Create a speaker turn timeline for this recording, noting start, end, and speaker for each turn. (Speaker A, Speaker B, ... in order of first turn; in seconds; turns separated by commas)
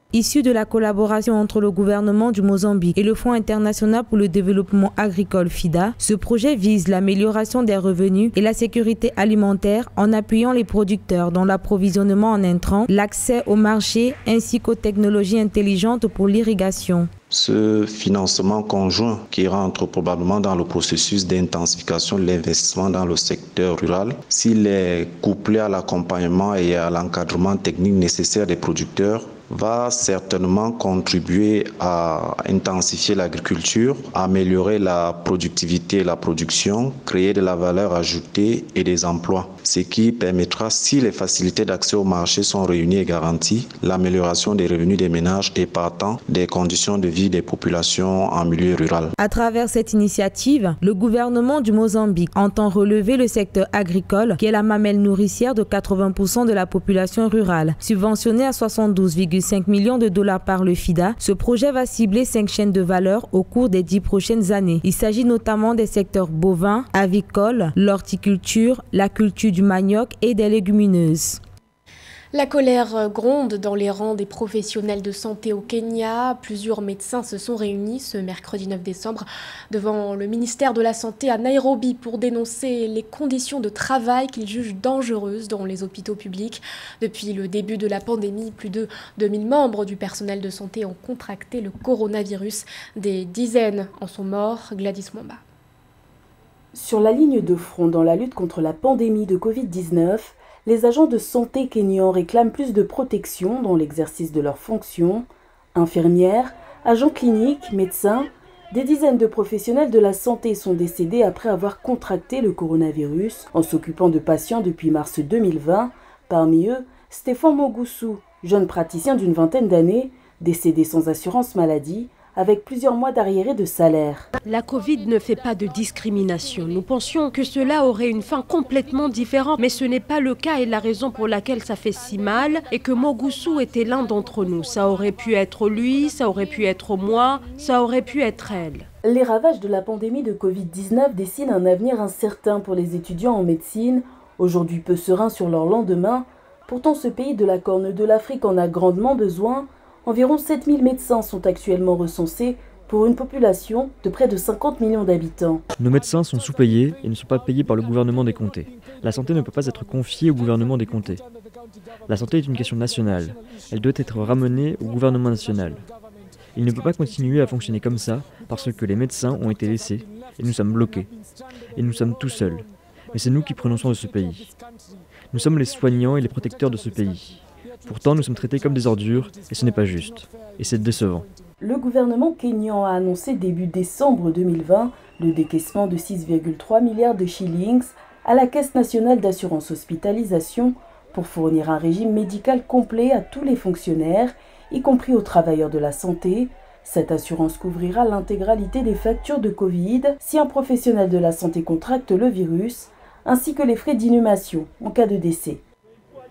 Speaker A: 0.1-17.1, Speaker B: 17.3-49.1, Speaker A: 49.2-71.4, Speaker C: 72.3-95.4, Speaker D: 96.8-124.3, Speaker E: 124.4-138.9, Speaker D: 139.0-155.6, Speaker F: 155.8-161.2, Speaker F: 162.1-165.8, Speaker F: 166.6-171.1, Speaker F: 171.8-174.5, Speaker F: 175.3-181.3, Speaker D: 181.6-205.6